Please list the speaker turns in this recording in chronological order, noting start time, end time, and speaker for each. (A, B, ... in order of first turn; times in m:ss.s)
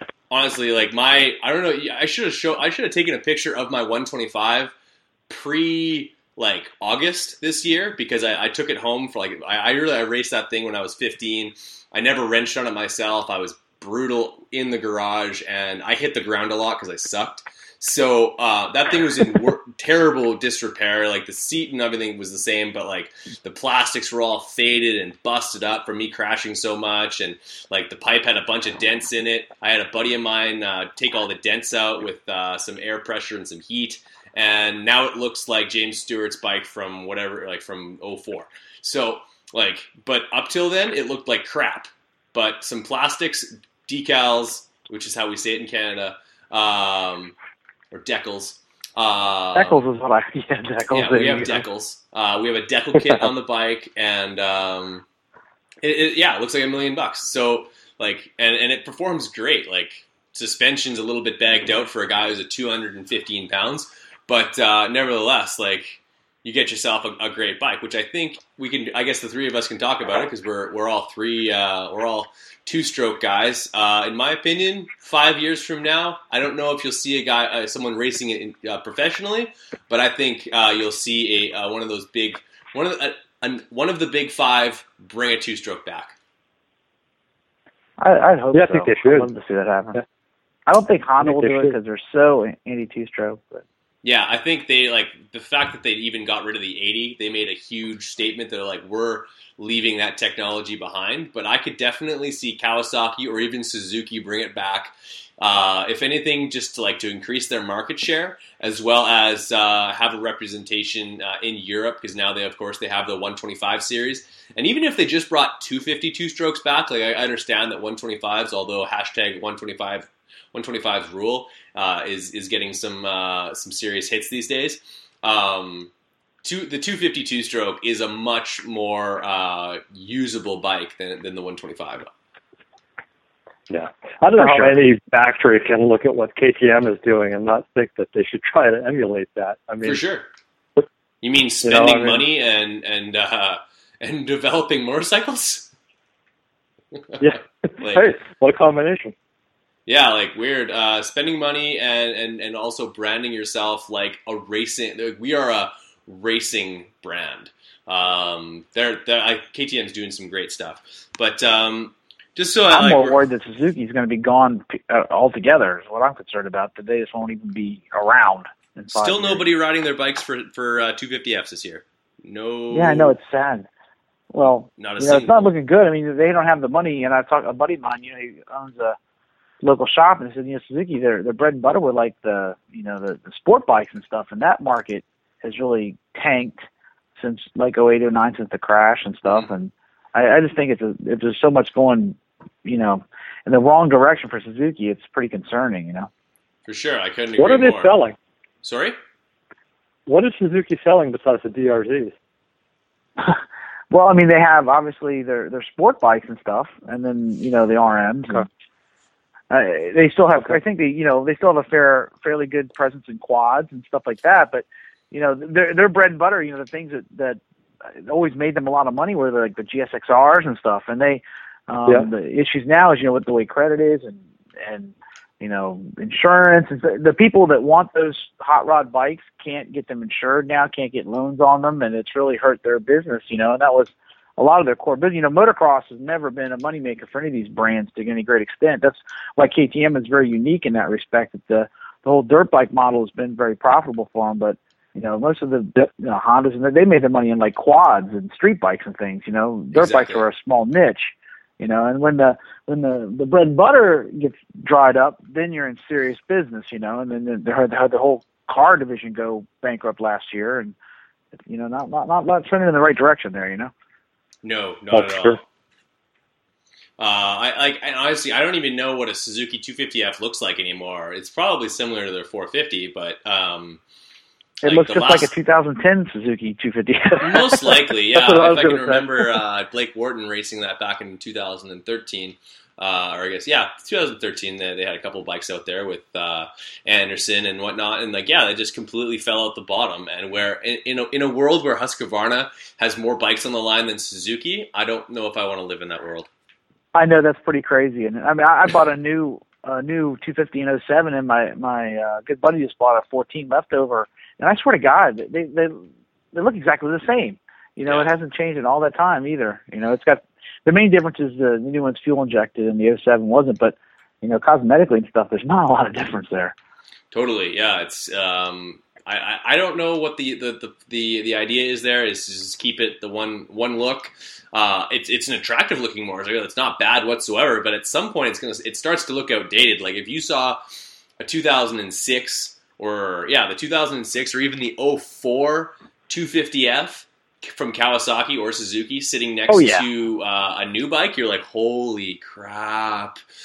0:00.3-0:04.7 A
0:05.3-0:47.3 A
0:47.9-0:49.8 A
0:49.6-0:51.6 B
0:50.9-0:55.0 A
0:55.8-1:26.2 A
1:28.0-1:30.0 B
1:28.5-1:29.3 C
1:30.7-1:33.6 B
1:31.2-1:31.7 C
1:34.0-2:05.9 A
2:06.4-2:12.1 A
2:13.7-2:20.0 C
2:14.4-2:14.7 B
2:19.8-2:20.3 A
2:21.2-2:25.7 A
2:21.6-2:22.2 C
2:27.2-2:29.1 C
2:27.8-2:28.1 A
2:29.9-2:43.2 A
2:42.7-2:49.5 B
2:48.9-2:53.2 A
2:52.7-2:53.7 B
2:54.3-2:59.0 B
2:54.8-2:55.5 A
2:59.6-3:06.6 B
3:07.2-3:16.1 B
3:16.7-3:17.9 A
3:17.4-3:18.2 C
3:18.6-3:19.0 A
3:20.1-3:22.1 C
3:23.2-3:28.5 B
3:29.5-4:20.8 B
4:09.7-4:10.2 A
4:21.5-4:23.7 B
4:24.4-4:25.4 A
4:24.9-4:25.4 C
4:27.0-4:33.8 A
4:34.6-4:35.3 A
4:34.6-4:37.6 B
4:37.2-4:56.3 A
4:38.1-4:39.3 C
4:56.9-5:16.6 B
5:07.9-5:08.1 A
5:17.1-5:30.6 A
5:31.2-5:43.2 A
5:39.5-5:39.9 B